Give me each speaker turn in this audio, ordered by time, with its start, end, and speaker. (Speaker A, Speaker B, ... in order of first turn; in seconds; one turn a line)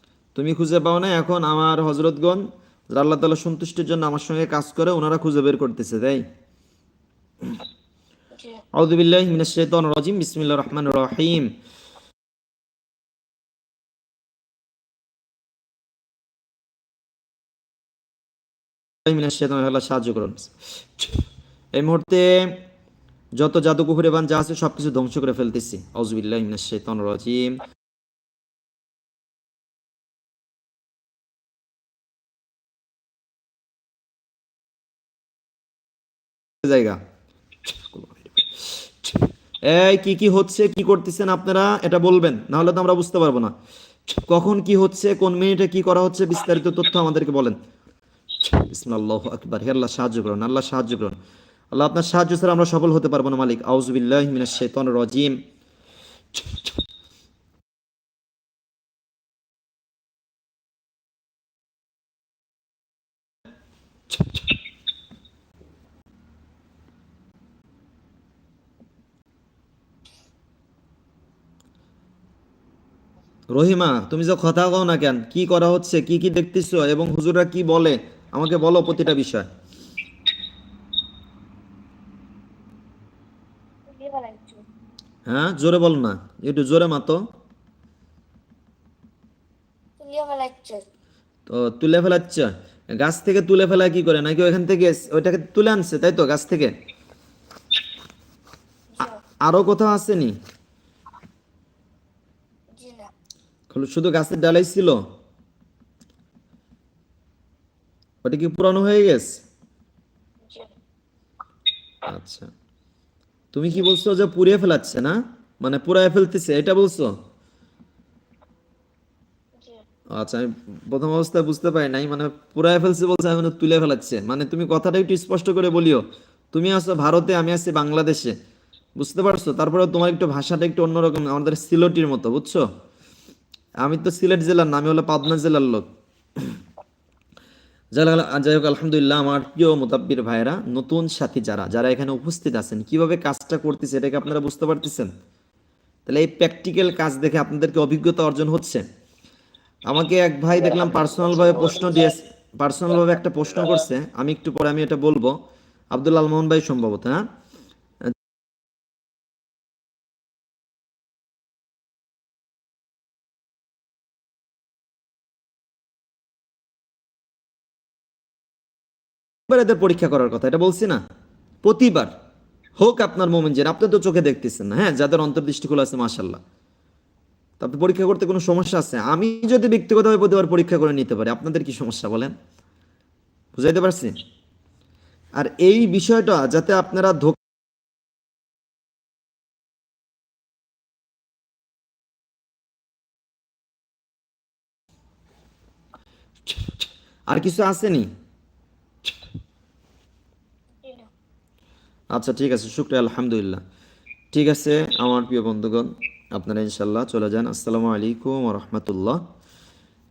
Speaker A: 0.3-6.2
Speaker B: 8.3-8.6
Speaker A: 8.8-11.5
Speaker A: 19.1-21.1
Speaker A: 21.7-22.6
Speaker A: 23.4-27.6
Speaker A: 36.6-37.0
Speaker A: 37.6-43.5
Speaker A: 44.1-47.6
Speaker A: 48.4-51.1
Speaker A: 51.7-55.4
Speaker A: 73.5-79.5
Speaker B: 83.9-84.6
Speaker A: 85.3-87.2
Speaker B: 90.0-90.8
Speaker A: 91.5-96.7
Speaker A: 99.5-100.3
Speaker B: 102.7-103.1
Speaker A: 103.7-105.0
Speaker A: 108.2-109.3
Speaker B: 110.5-110.7
Speaker A: 112.0-112.5
Speaker A: 113.5-117.1
Speaker A: 120.2-128.3
Speaker A: 129.0-132.6
Speaker A: 133.8-135.9
Speaker A: 137.9-145.1
Speaker A: 146.1-148.8
Speaker A: 149.9-155.3
Speaker A: 155.9-157.2
Speaker A: 169.5-171.0
Speaker A: 171.6-172.1
Speaker A: 172.8-176.4
Speaker A: 177.6-182.3
Speaker A: 183.6-184.1
Speaker A: 185.4-187.4
Speaker A: 197.3-198.1
Speaker B: 200.8-201.1
Speaker A: 202.1-203.6
Speaker A: 204.3-209.2